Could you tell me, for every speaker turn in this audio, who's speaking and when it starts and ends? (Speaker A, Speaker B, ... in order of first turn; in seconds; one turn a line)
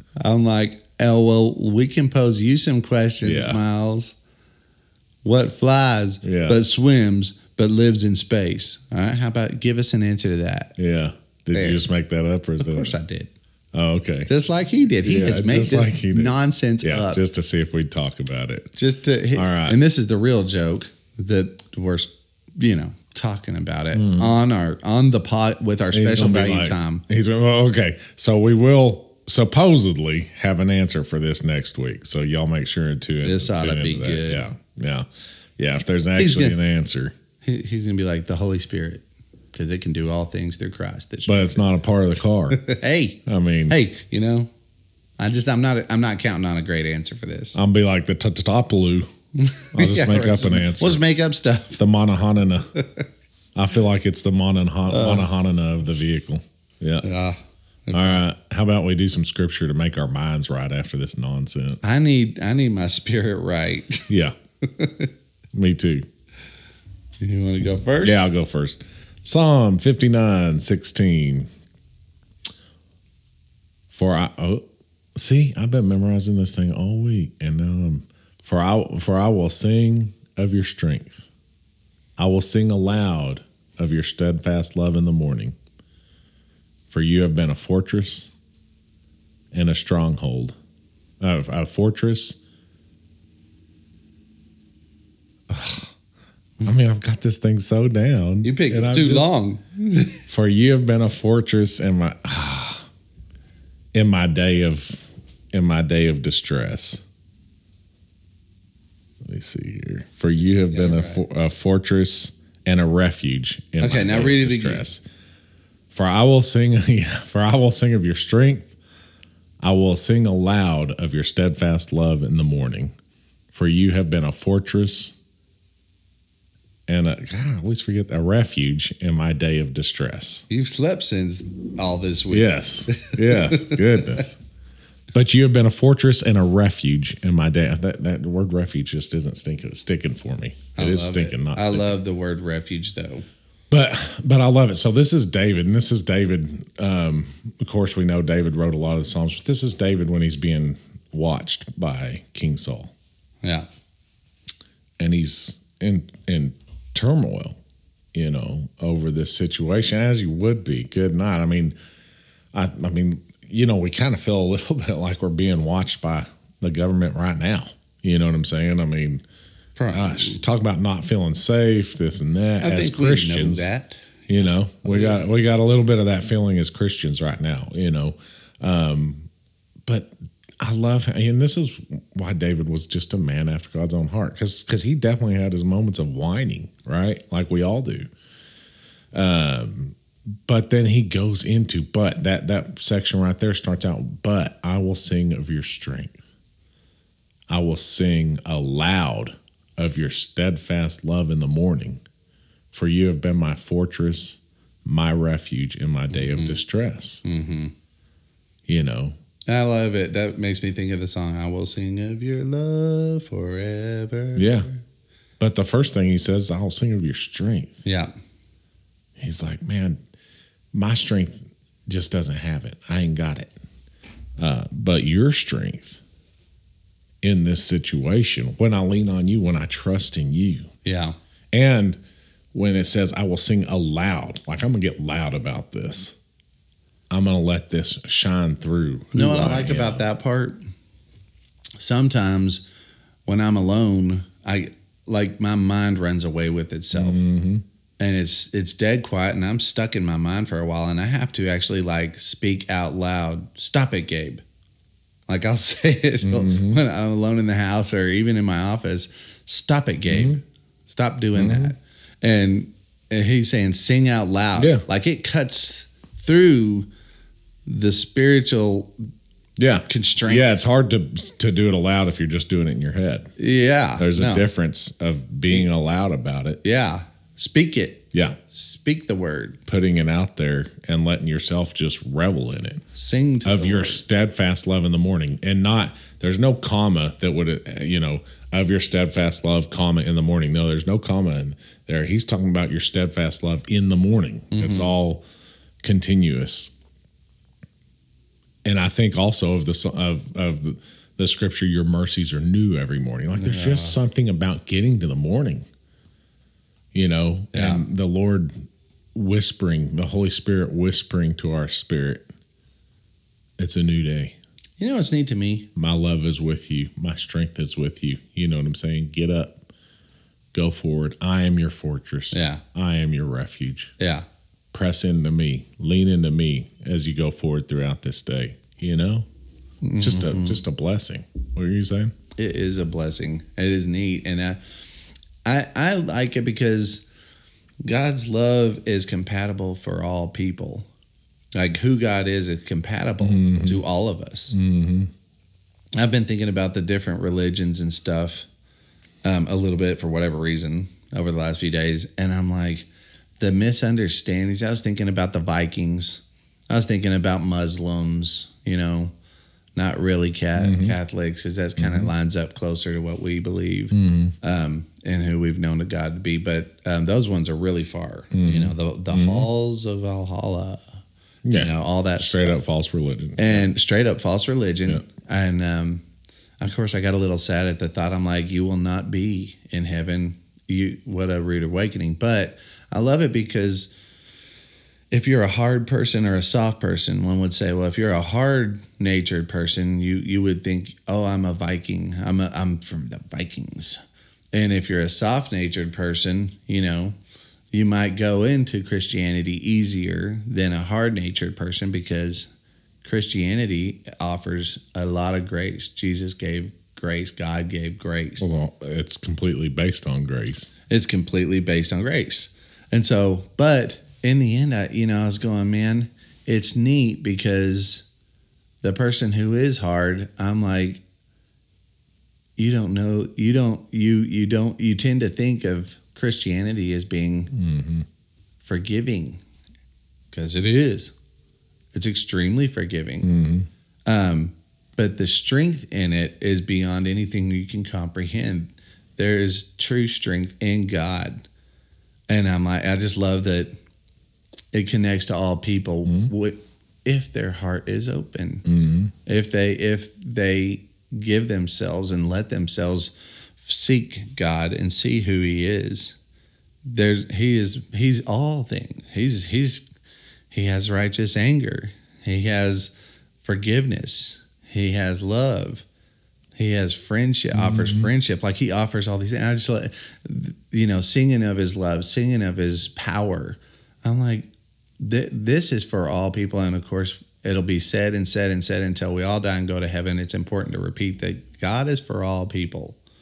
Speaker A: 0.2-4.2
Speaker B: 3.2-3.6
Speaker A: 5.2-10.7
Speaker B: 6.2-6.6
Speaker B: 10.8-13.0
Speaker A: 11.5-11.8
Speaker A: 12.6-13.3
Speaker B: 13.7-14.3
Speaker A: 14.3-17.2
Speaker B: 15.0-18.7
Speaker A: 18.8-27.0
Speaker B: 19.3-19.8
Speaker B: 23.9-24.4
Speaker B: 25.9-37.1
Speaker A: 33.2-34.4
Speaker A: 36.2-36.5
Speaker A: 37.4-41.6
Speaker B: 41.2-42.6
Speaker A: 42.5-44.5
Speaker B: 43.2-43.8
Speaker A: 45.2-47.6
Speaker B: 47.5-49.1
Speaker A: 49.4-51.8
Speaker B: 49.7-51.0
Speaker B: 51.8-52.7
Speaker A: 52.8-53.0
Speaker B: 53.5-57.1
Speaker A: 54.9-55.2
Speaker A: 57.0-58.2
Speaker B: 57.9-61.8
Speaker A: 61.8-64.1
Speaker B: 64.1-64.3
Speaker A: 64.6-65.1
Speaker B: 65.5-66.0
Speaker A: 67.2-68.3
Speaker B: 68.0-71.5
Speaker B: 73.9-74.6
Speaker B: 75.1-81.3
Speaker B: 82.2-85.5
Speaker B: 86.9-88.3
Speaker B: 89.5-90.5
Speaker B: 91.2-92.4
Speaker B: 95.5-95.9
Speaker B: 96.6-99.3
Speaker A: 98.4-100.2
Speaker B: 100.3-102.9
Speaker B: 103.9-107.0
Speaker B: 109.2-115.0
Speaker A: 110.7-111.2
Speaker A: 113.8-114.8
Speaker B: 115.9-118.7
Speaker B: 119.6-122.9
Speaker B: 123.5-125.1
Speaker B: 126.9-130.4
Speaker A: 130.5-134.2
Speaker B: 132.3-134.4
Speaker B: 135.1-142.0
Speaker A: 140.8-143.2
Speaker B: 143.7-152.9
Speaker B: 155.0-157.6
Speaker B: 158.1-161.7
Speaker B: 162.5-169.2
Speaker A: 169.8-170.4
Speaker B: 169.9-173.7
Speaker A: 172.6-174.0
Speaker B: 174.3-179.3
Speaker A: 174.8-175.2
Speaker B: 179.8-188.1
Speaker B: 189.1-196.2
Speaker B: 197.5-202.0
Speaker B: 202.7-207.2
Speaker A: 206.1-206.6
Speaker A: 207.2-207.7
Speaker B: 208.7-209.2
Speaker A: 209.5-214.8
Speaker B: 214.3-214.7
Speaker B: 215.4-217.8
Speaker A: 217.8-218.1
Speaker B: 219.2-220.0
Speaker B: 220.7-223.5
Speaker B: 224.4-226.0
Speaker B: 227.2-230.7
Speaker A: 230.8-231.2
Speaker B: 231.5-232.0
Speaker B: 232.5-236.2
Speaker B: 237.1-240.0
Speaker A: 239.1-240.6
Speaker A: 241.8-242.6
Speaker A: 243.2-247.2
Speaker B: 246.9-247.6
Speaker A: 248.0-254.4
Speaker A: 255.3-266.9
Speaker B: 256.2-256.8
Speaker B: 260.1-260.4
Speaker B: 261.3-261.7
Speaker B: 264.6-264.8
Speaker A: 267.6-268.9
Speaker B: 269.6-273.3
Speaker A: 269.9-270.5
Speaker A: 273.4-274.4
Speaker B: 274.0-276.6
Speaker A: 276.6-279.6
Speaker B: 278.1-278.4
Speaker B: 279.7-282.8
Speaker A: 282.9-284.0
Speaker B: 283.4-295.2
Speaker A: 294.5-294.9
Speaker B: 295.8-296.7
Speaker B: 298.6-305.6
Speaker A: 303.3-304.0
Speaker B: 306.9-308.5
Speaker A: 307.5-307.9
Speaker B: 309.1-312.3
Speaker B: 313.6-314.4
Speaker A: 314.8-315.7
Speaker B: 315.7-319.6
Speaker B: 320.5-323.9
Speaker A: 322.3-322.6
Speaker A: 324.0-324.2
Speaker B: 324.7-329.3
Speaker A: 329.8-330.6
Speaker B: 330.0-332.1
Speaker A: 332.4-334.6
Speaker A: 335.4-337.0
Speaker A: 337.8-340.9
Speaker A: 341.5-344.5
Speaker B: 343.2-343.8
Speaker B: 344.5-345.1
Speaker A: 345.9-348.5
Speaker A: 349.2-352.9
Speaker A: 353.4-359.1
Speaker A: 359.8-370.8
Speaker B: 360.6-360.9
Speaker B: 361.8-362.1
Speaker B: 363.9-364.3
Speaker B: 368.3-369.5
Speaker B: 371.4-373.7
Speaker A: 371.5-372.6
Speaker A: 373.4-376.0
Speaker A: 376.6-383.9
Speaker A: 385.1-394.0
Speaker A: 394.5-397.1
Speaker A: 397.7-402.5
Speaker A: 403.0-408.5
Speaker B: 408.4-410.7
Speaker A: 410.9-418.1
Speaker A: 418.8-421.0
Speaker A: 422.6-427.5
Speaker B: 427.5-428.1
Speaker A: 428.6-429.4
Speaker A: 430.3-431.1
Speaker A: 431.9-433.3
Speaker B: 433.2-433.7
Speaker A: 434.1-441.4
Speaker A: 442.3-443.7
Speaker A: 444.7-448.6
Speaker B: 446.1-446.3
Speaker B: 448.6-449.1
Speaker A: 449.2-456.1
Speaker A: 456.9-459.8
Speaker A: 460.5-462.9
Speaker A: 463.4-465.8
Speaker A: 466.6-474.5
Speaker B: 467.5-468.1
Speaker A: 475.0-483.0